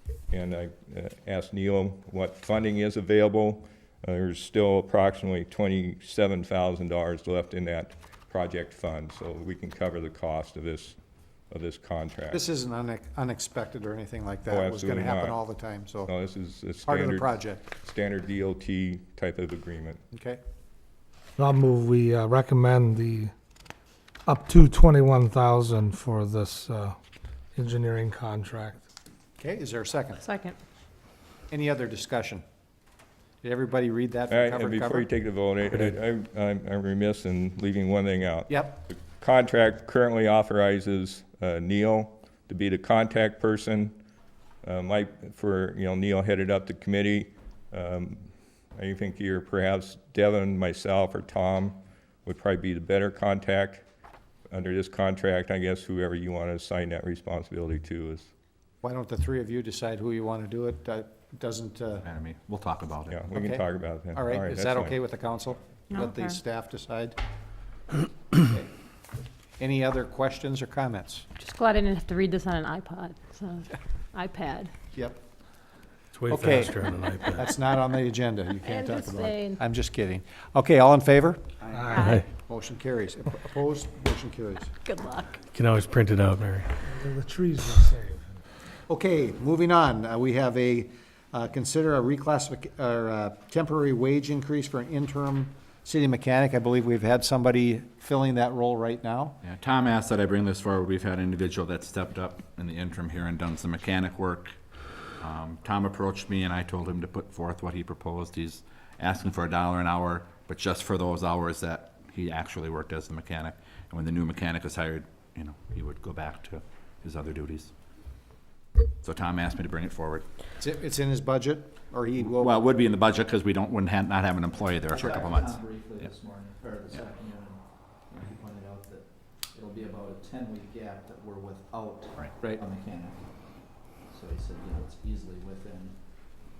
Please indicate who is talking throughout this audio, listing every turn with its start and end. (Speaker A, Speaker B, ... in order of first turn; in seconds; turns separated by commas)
Speaker A: 0.3-10.9, Speaker A: 11.5-12.4, Speaker B: 12.3-16.1, Speaker A: 14.5-15.4, Speaker A: 16.1-20.0, Speaker B: 16.8-17.7, Speaker B: 20.1-20.4, Speaker C: 21.4-23.3, Speaker C: 24.2-27.0, Speaker C: 27.5-28.9, Speaker B: 29.4-30.2, Speaker D: 30.2-30.6, Speaker B: 31.5-32.4, Speaker B: 33.4-35.1, Speaker A: 34.3-44.0, Speaker B: 38.5-38.8, Speaker A: 44.6-53.8, Speaker A: 54.5-58.3, Speaker B: 58.8-62.0, Speaker E: 62.0-63.3, Speaker A: 63.1-65.0, Speaker B: 63.3-67.2, Speaker D: 65.9-66.3, Speaker B: 68.3-68.7, Speaker B: 69.6-71.2, Speaker D: 71.4-74.7, Speaker B: 74.9-75.2, Speaker F: 76.1-77.4, Speaker B: 76.3-84.7, Speaker D: 78.6-79.6, Speaker D: 81.9-82.2, Speaker D: 84.8-85.4, Speaker F: 85.5-86.8, Speaker C: 86.8-88.3, Speaker B: 88.9-99.4, Speaker E: 99.4-104.5, Speaker E: 105.2-117.7, Speaker E: 119.0-120.3, Speaker B: 120.6-122.6, Speaker E: 122.2-125.6, Speaker G: 124.9-135.9